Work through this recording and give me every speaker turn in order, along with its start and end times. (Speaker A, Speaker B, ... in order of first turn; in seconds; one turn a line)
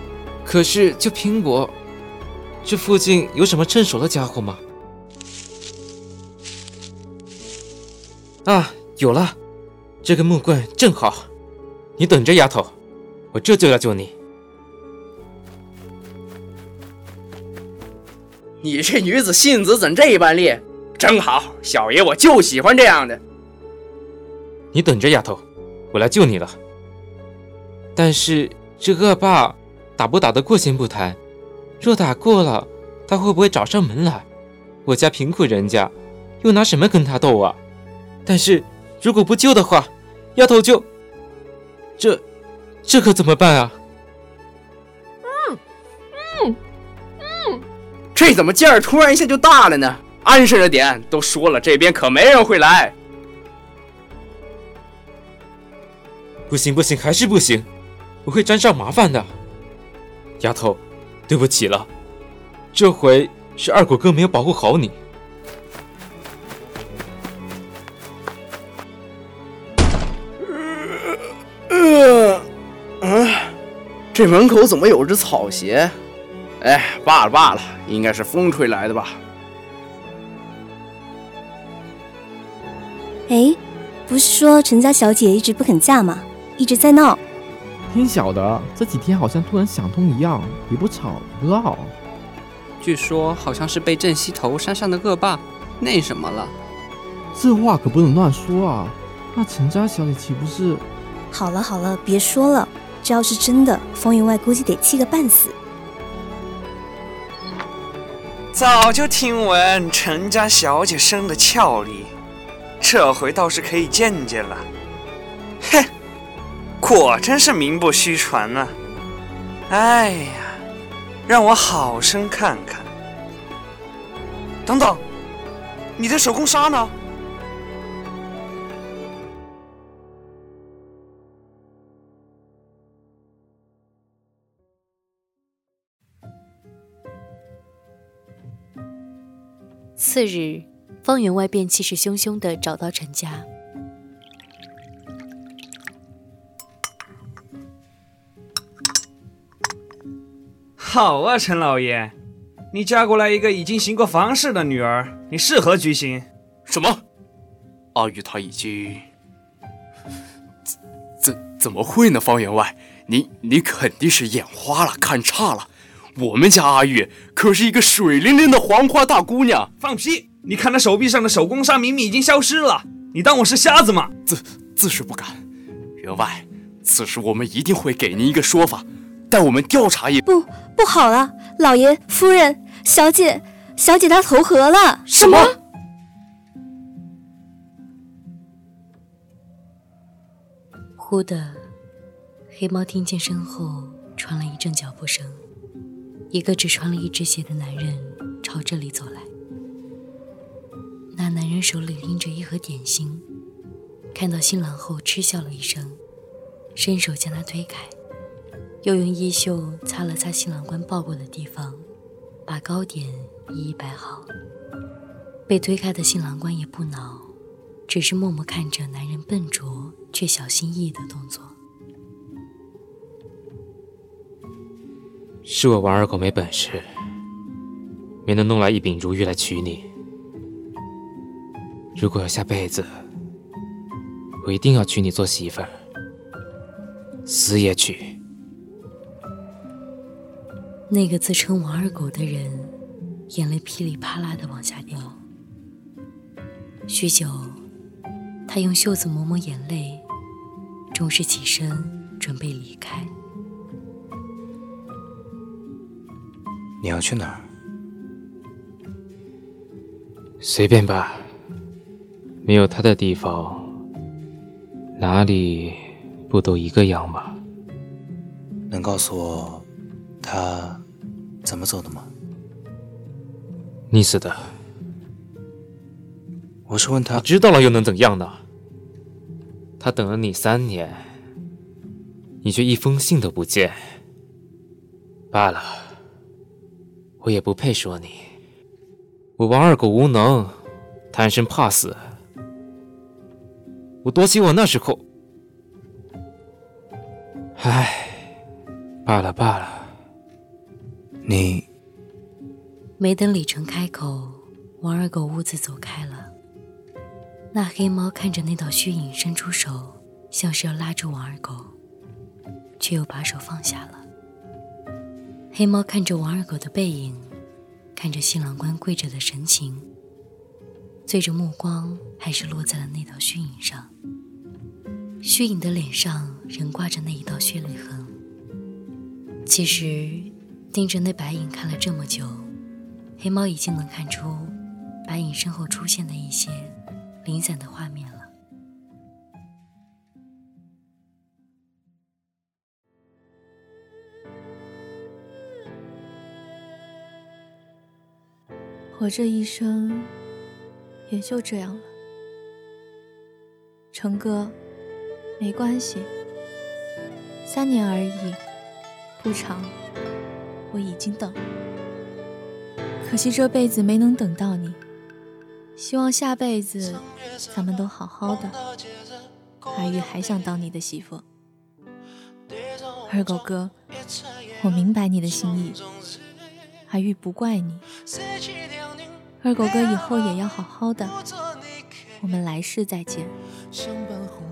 Speaker A: 0.4-1.7
Speaker A: 2.6-4.6
Speaker A: 8.4-9.3
Speaker A: 10.0-11.3
Speaker A: 12.0-12.7
Speaker A: 13.3-14.1
Speaker B: 18.6-23.2
Speaker A: 24.7-26.5
Speaker A: 27.9-31.2
Speaker A: 31.8-34.2
Speaker A: 34.9-37.6
Speaker A: 38.2-40.9
Speaker A: 42.8-43.8
Speaker B: 48.1-52.9
Speaker A: 56.5-57.6
Speaker A: 58.2-59.3
Speaker A: 60.4-61.9
Speaker A: 62.7-64.9
Speaker B: 70.4-72.5
Speaker B: 73.0-73.5
Speaker B: 74.1-76.0
Speaker B: 76.6-79.2
Speaker C: 83.3-87.2
Speaker D: 87.9-91.9
Speaker E: 92.8-96.5
Speaker D: 97.3-100.8
Speaker C: 101.3-105.5
Speaker F: 108.5-112.1
Speaker F: 112.8-114.7
Speaker F: 115.6-115.9
Speaker F: 116.8-118.7
Speaker F: 119.7-120.6
Speaker F: 121.3-122.9
Speaker F: 124.7-125.0
Speaker F: 126.0-126.9
Speaker G: 140.0-143.5
Speaker F: 150.8-152.1
Speaker F: 152.7-156.2
Speaker H: 156.7-157.0
Speaker H: 157.9-159.1
Speaker H: 161.2-169.7
Speaker F: 169.8-174.1
Speaker H: 174.2-175.4
Speaker H: 176.0-180.2
Speaker C: 180.2-185.5
Speaker H: 185.1-185.5
Speaker G: 191.0-191.7
Speaker G: 192.5-195.4
Speaker G: 196.3-199.3
Speaker G: 201.1-203.2
Speaker G: 204.1-206.0
Speaker G: 206.8-207.9
Speaker G: 208.8-211.9
Speaker G: 212.4-214.3
Speaker G: 215.5-217.3
Speaker G: 217.9-221.6
Speaker A: 225.4-226.8
Speaker A: 228.2-229.8
Speaker A: 231.9-232.9
Speaker A: 234.4-235.7
Speaker A: 237.2-238.2
Speaker G: 240.9-242.7
Speaker G: 243.3-245.2
Speaker G: 246.9-247.6
Speaker G: 248.5-250.1
Speaker G: 250.9-253.1
Speaker I: 256.8-257.4
Speaker A: 260.4-261.3
Speaker A: 262.4-263.7
Speaker A: 265.0-267.4
Speaker I: 268.7-269.6
Speaker I: 270.2-270.8
Speaker I: 271.4-272.1
Speaker A: 273.9-274.5
Speaker I: 276.7-277.2
Speaker A: 277.1-278.4
Speaker A: 279.8-281.1
Speaker A: 282.4-284.0
Speaker A: 285.3-286.0
Speaker A: 287.2-288.2
Speaker A: 289.4-290.6
Speaker A: 291.1-292.1
Speaker A: 294.0-295.0
Speaker A: 297.6-298.3
Speaker A: 299.0-299.9
Speaker I: 301.2-301.7
Speaker G: 303.0-306.3
Speaker G: 307.5-311.7
Speaker G: 312.8-314.1
Speaker G: 315.5-317.4
Speaker G: 317.9-319.9
Speaker G: 321.1-323.9
Speaker G: 325.2-328.2
Speaker G: 329.4-332.5
Speaker G: 333.2-338.3
Speaker J: 348.9-350.1
Speaker J: 351.1-351.9
Speaker J: 353.9-354.6
Speaker J: 355.4-356.1
Speaker J: 357.4-358.4
Speaker J: 359.2-359.7
Speaker J: 360.7-361.4
Speaker J: 363.0-364.8
Speaker J: 365.8-368.6
Speaker J: 369.7-371.2
Speaker J: 373.1-373.7
Speaker J: 374.6-375.8
Speaker J: 376.9-377.9
Speaker J: 379.4-381.1
Speaker J: 382.2-383.4